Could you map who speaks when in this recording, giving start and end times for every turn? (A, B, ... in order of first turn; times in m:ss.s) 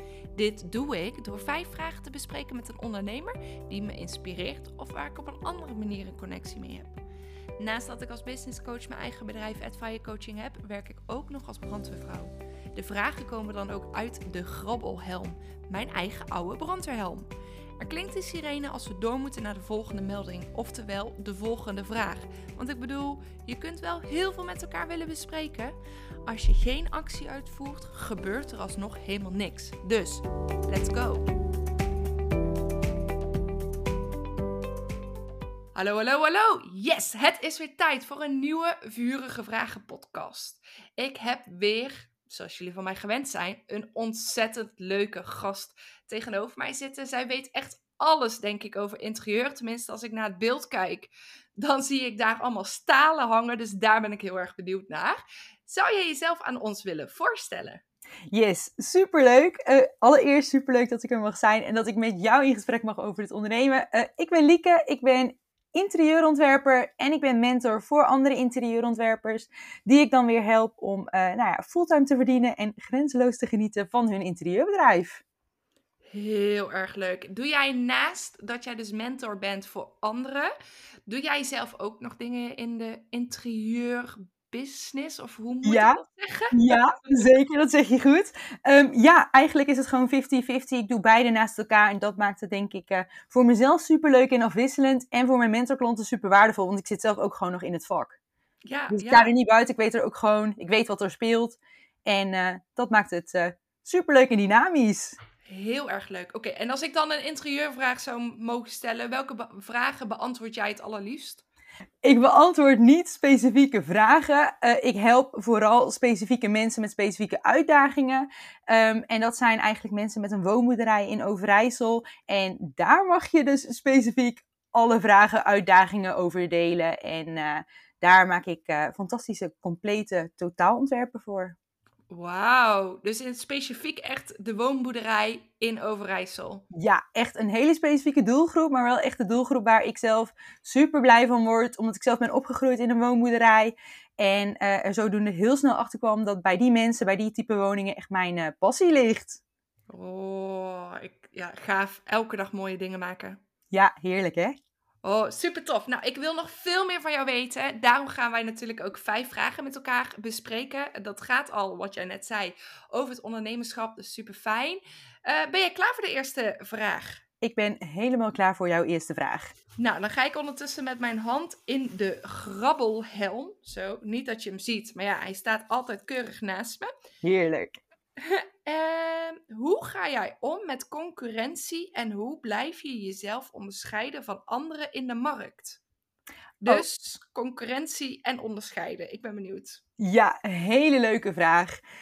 0:00.3-0:07.0 A
0:07.6-0:17.3 A
0:17.8-0:31.3 A
0:35.8-0:57.8 A
0:58.3-1:15.2 B
1:16.1-1:20.5 A
1:21.1-1:27.2 A
1:25.6-1:26.0 B
1:26.5-1:38.2 B
1:38.6-1:39.3 A
1:38.9-1:45.2 B
1:45.5-1:51.4 A
1:52.0-2:11.6 B
2:12.1-2:16.6 A
2:16.7-2:29.4 B
2:29.9-2:33.4 A
2:33.7-2:34.6 B
2:35.0-2:47.2 A
2:47.4-2:49.5 B
2:49.8-2:56.9 A
2:57.2-2:57.8 B
2:58.2-3:05.8 A
3:06.6-3:09.8 A
3:10.0-3:11.8 B